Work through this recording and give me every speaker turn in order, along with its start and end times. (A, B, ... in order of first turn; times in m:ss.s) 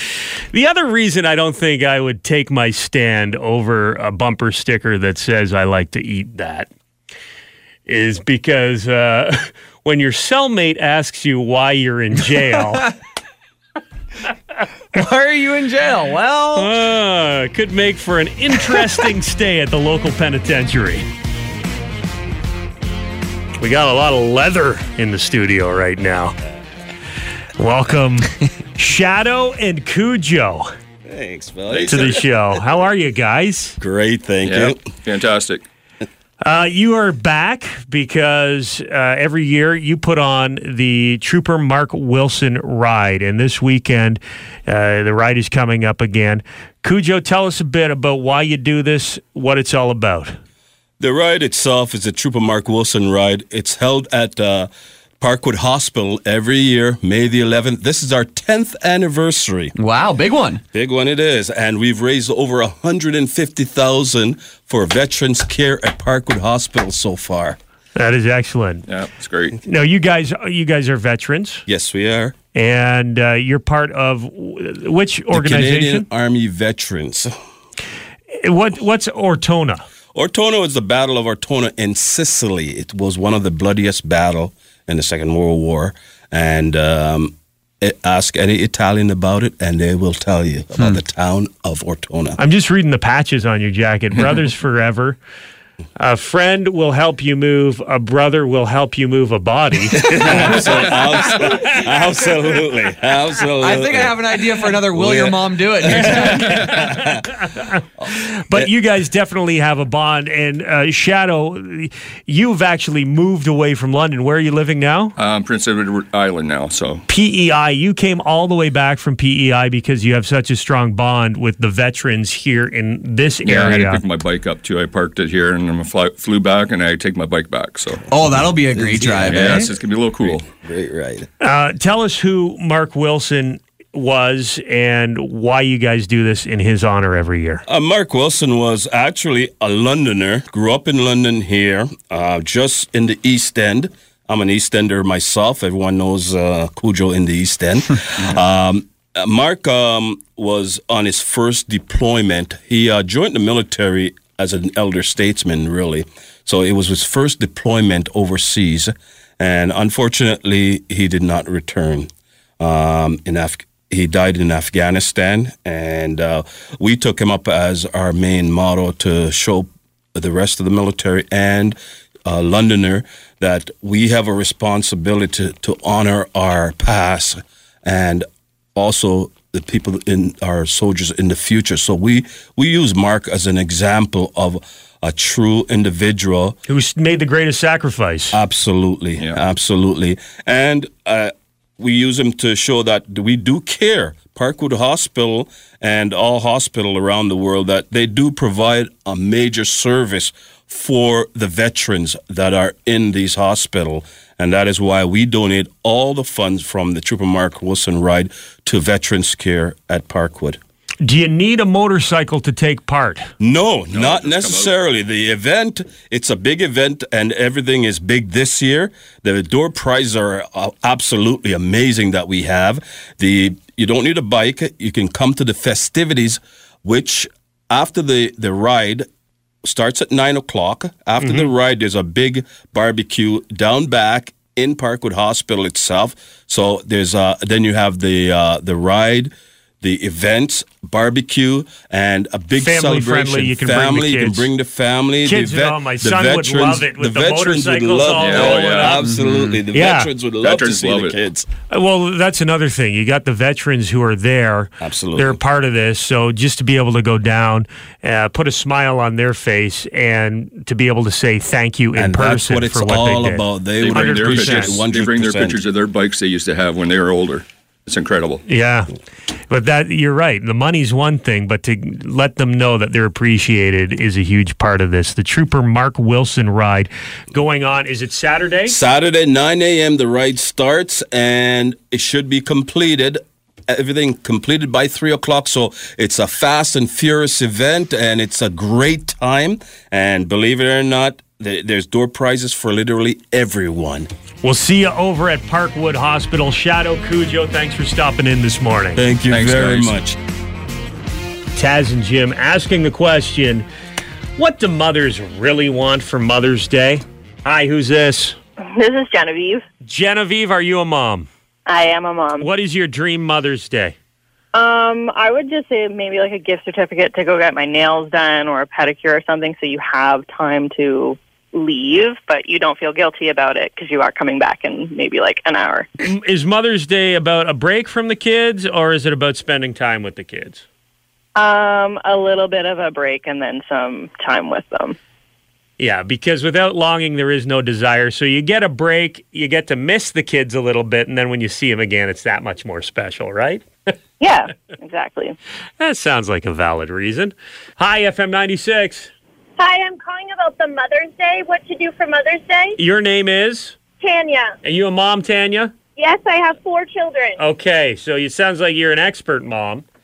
0:00.5-0:06.7 A
0:07.9-0:12.9 A
0:14.9-0:16.7 B
0:16.6-0:21.1 A
0:23.6-0:26.4 A
0:27.6-0:30.7 A
0:31.1-0:32.2 C
0:31.7-0:32.2 D
0:31.9-0:33.8 A
0:33.8-0:34.8 C
0:34.4-0:35.6 D
0:36.4-0:50.4 A
0:51.0-0:54.7 C
0:55.2-0:59.7 C
0:59.8-1:00.6 B
1:00.7-1:07.6 C
1:08.0-1:08.8 A
1:08.9-1:09.6 D
1:09.6-1:11.6 A
1:11.7-1:12.4 C
1:12.5-1:16.1 A
1:15.3-1:17.3 C
1:18.3-1:19.9 A
1:20.1-1:32.4 C
1:32.4-1:35.2 A
1:36.0-1:40.7 A
1:39.9-1:47.3 C
1:40.1-1:40.6 B
1:41.3-1:41.8 A
1:43.6-1:46.7 B
1:46.5-1:55.1 A
1:48.0-1:48.7 C
1:55.2-1:57.0 D
1:57.1-2:04.0 A
2:03.4-2:08.1 D
2:08.1-2:09.7 B
2:08.8-2:11.3 C
2:09.2-2:10.5 D
2:11.4-2:17.6 A
2:17.7-2:42.1 C
2:42.6-3:06.6 C
3:06.7-3:08.4 A
3:08.3-3:30.6 C
3:31.0-3:33.3 A
3:33.4-3:49.1 C
3:33.9-3:34.7 D
3:49.6-4:11.5 C
3:51.2-3:51.5 A
4:02.6-4:04.5 A
4:05.2-4:09.0 A
4:08.1-4:09.0 D
4:09.0-4:09.6 B
4:09.7-4:10.1 A
4:10.4-4:11.2 D
4:11.7-4:24.8 A
4:14.8-4:15.4 C
4:22.0-4:25.6 C
4:23.8-4:28.4 D
4:28.5-4:28.9 A
4:29.5-4:38.8 A
4:38.7-4:54.1 C
4:54.4-4:59.0 A
4:59.0-5:00.2 C
4:59.3-5:00.0 D
5:01.6-5:03.7 A
5:04.4-5:08.4 A
5:08.6-5:09.6 E
5:09.8-5:11.3 A
5:11.7-5:12.5 E
5:12.4-5:14.0 A
5:14.5-5:25.9 E
5:26.0-5:30.6 A
5:31.4-5:35.0 E
5:35.8-5:43.6 A
5:44.2-5:45.4 E
5:45.8-5:49.1 A
5:49.6-5:52.8 F
5:52.8-5:53.8 A
5:54.0-5:54.6 F
5:54.6-5:55.7 A
5:56.0-5:57.4 F
5:57.4-5:59.8 A